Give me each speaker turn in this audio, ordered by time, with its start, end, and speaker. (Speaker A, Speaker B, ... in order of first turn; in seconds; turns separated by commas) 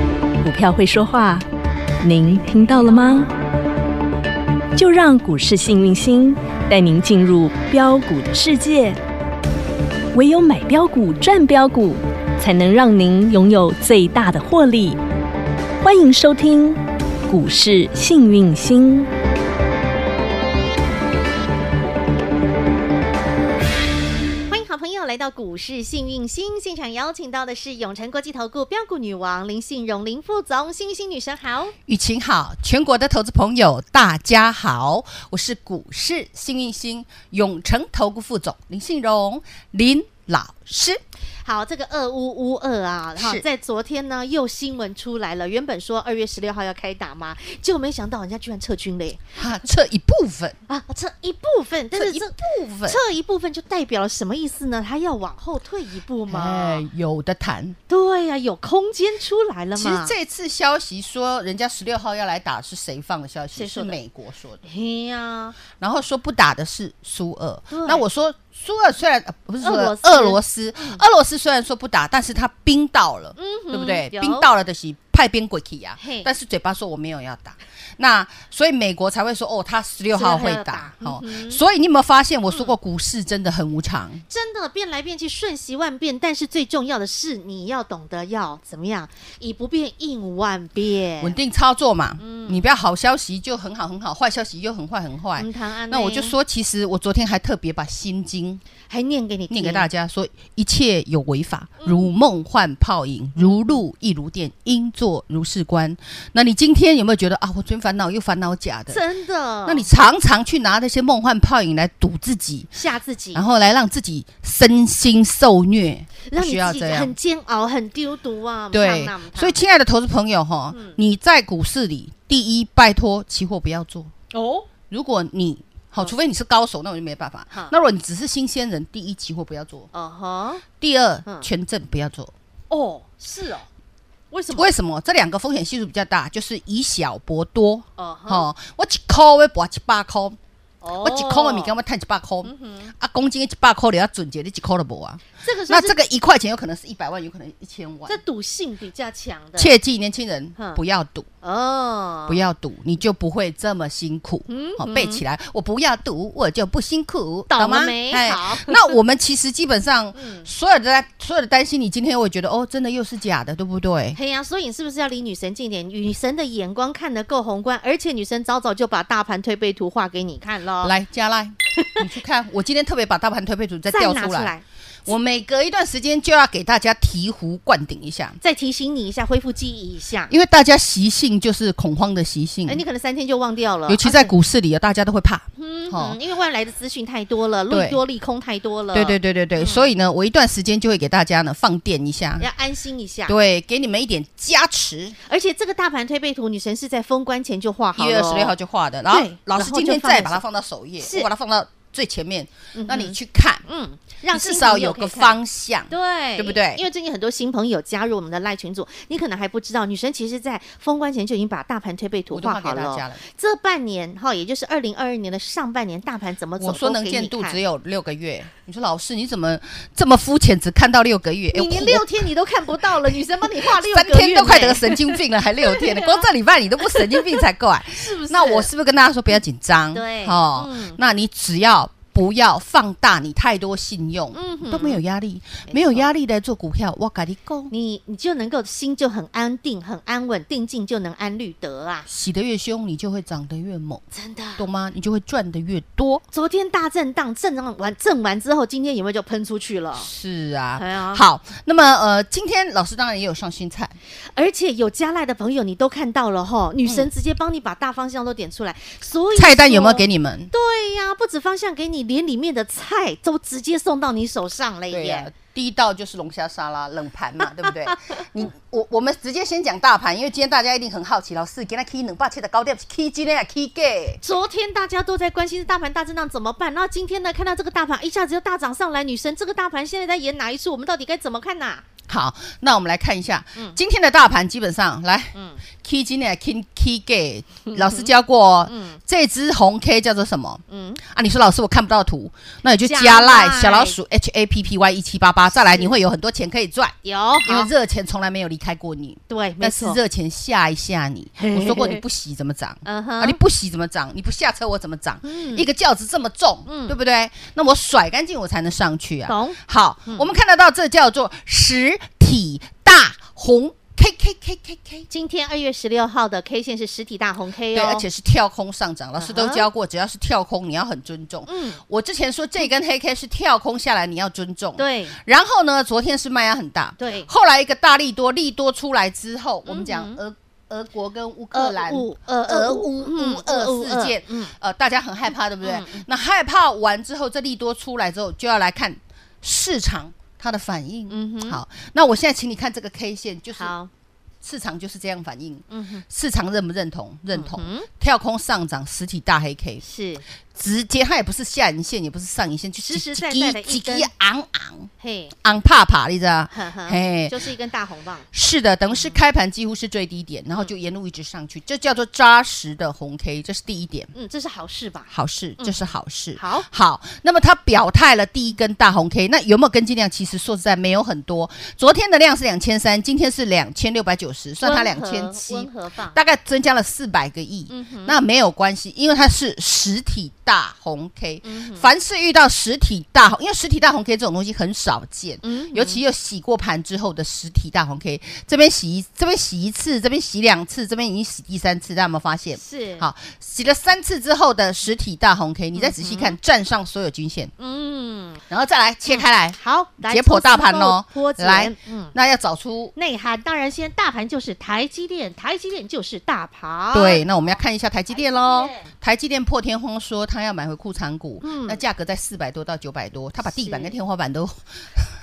Speaker A: 0.4-1.4, Speaker A: 2.0-3.3, Speaker A: 4.7-9.0, Speaker A: 10.1-15.0, Speaker A: 15.8-19.1, Speaker B: 24.5-31.7, Speaker C: 31.9-41.0, Speaker B: 41.4-49.3, Speaker C: 43.1-43.5, Speaker C: 49.4-50.6, Speaker B: 50.7-52.3, Speaker C: 51.9-53.0, Speaker B: 52.9-56.8, Speaker C: 56.3-57.8, Speaker B: 57.9-60.1, Speaker C: 59.7-64.6, Speaker B: 63.5-64.0, Speaker B: 64.6-65.6, Speaker C: 65.7-84.2, Speaker B: 67.7-68.0, Speaker B: 69.6-71.0, Speaker B: 73.4-74.5, Speaker B: 76.0-76.3, Speaker B: 80.1-81.6, Speaker B: 82.5-82.8, Speaker B: 84.3-91.4, Speaker C: 91.2-98.6, Speaker B: 92.2-92.7, Speaker B: 95.4-96.3, Speaker B: 98.9-99.9, Speaker C: 99.5-109.0, Speaker B: 101.8-102.1, Speaker B: 103.4-103.8, Speaker B: 108.9-109.9, Speaker C: 109.6-112.7, Speaker B: 112.7-113.4, Speaker C: 113.3-117.1, Speaker B: 116.2-119.6, Speaker C: 118.7-124.1, Speaker B: 120.7-121.0, Speaker B: 124.3-124.7, Speaker C: 124.9-129.9, Speaker B: 129.9-130.6, Speaker C: 130.8-132.3, Speaker B: 132.7-133.7, Speaker B: 134.3-134.7, Speaker C: 134.5-140.4, Speaker B: 138.0-138.5, Speaker B: 140.8-141.7, Speaker C: 141.0-148.2, Speaker B: 142.4-142.9, Speaker B: 145.4-146.0, Speaker B: 148.1-149.7, Speaker C: 149.6-151.3, Speaker B: 151.4-152.4, Speaker C: 152.3-164.2, Speaker B: 154.5-155.2, Speaker B: 157.5-158.9, Speaker B: 160.1-160.5, Speaker B: 164.1-170.9, Speaker C: 170.8-174.5, Speaker B: 173.9-174.6, Speaker C: 175.1-178.4, Speaker B: 178.4-180.3, Speaker C: 180.3-182.8, Speaker B: 182.7-184.3, Speaker C: 183.9-186.2, Speaker B: 185.6-189.9, Speaker C: 187.7-188.0, Speaker C: 188.9-192.5, Speaker B: 192.4-193.3, Speaker C: 193.3-195.2, Speaker B: 195.3-198.5, Speaker C: 197.9-203.6, Speaker B: 199.1-200.4, Speaker B: 201.0-201.3, Speaker B: 202.8-205.3, Speaker C: 204.3-206.8, Speaker B: 205.9-217.6, Speaker C: 212.3-213.2, Speaker C: 216.6-222.2, Speaker B: 221.5-226.2, Speaker C: 222.9-237.7, Speaker B: 226.8-228.7, Speaker B: 229.9-231.0, Speaker B: 234.3-235.0, Speaker B: 235.7-236.1, Speaker B: 237.7-242.1, Speaker C: 242.1-244.0, Speaker B: 244.1-244.6, Speaker C: 244.6-246.2, Speaker B: 246.3-250.1, Speaker C: 249.9-253.9, Speaker B: 250.8-251.2, Speaker B: 254.3-265.3, Speaker C: 259.3-260.5, Speaker C: 264.9-274.2, Speaker B: 267.6-267.9, Speaker B: 274.2-281.8, Speaker C: 282.1-315.1, Speaker B: 285.3-285.6, Speaker B: 287.7-288.1, Speaker B: 288.7-289.0, Speaker B: 290.7-291.0, Speaker B: 292.8-294.0, Speaker B: 295.5-295.9, Speaker B: 297.0-297.7, Speaker B: 299.3-300.0, Speaker B: 301.4-302.0, Speaker B: 302.8-303.4, Speaker B: 305.2-305.7, Speaker B: 306.7-307.0, Speaker B: 309.3-310.3, Speaker B: 315.1-318.1, Speaker C: 317.7-343.7, Speaker B: 319.2-319.7, Speaker B: 321.5-321.8, Speaker B: 324.8-325.2, Speaker B: 327.0-327.3, Speaker B: 329.6-330.2, Speaker B: 331.5-334.5, Speaker B: 335.6-336.0, Speaker B: 341.1-341.6, Speaker B: 343.5-343.9, Speaker C: 344.4-349.8, Speaker B: 345.7-346.0, Speaker B: 347.3-347.9, Speaker B: 349.8-350.2, Speaker C: 350.5-354.9, Speaker B: 352.8-354.1, Speaker B: 355.0-355.3, Speaker C: 355.4-357.4, Speaker B: 356.5-358.3, Speaker C: 358.3-364.1, Speaker B: 358.9-359.2, Speaker B: 364.1-366.7, Speaker C: 365.1-397.5, Speaker B: 374.6-376.2, Speaker B: 377.7-378.1, Speaker B: 381.4-381.9, Speaker B: 385.4-386.0, Speaker B: 392.6-393.1, Speaker B: 395.8-396.4, Speaker B: 397.6-398.4, Speaker C: 398.5-402.9, Speaker B: 399.1-402.1, Speaker B: 402.9-407.2, Speaker C: 406.9-415.1, Speaker B: 408.1-408.9, Speaker B: 411.4-411.8, Speaker B: 413.4-413.9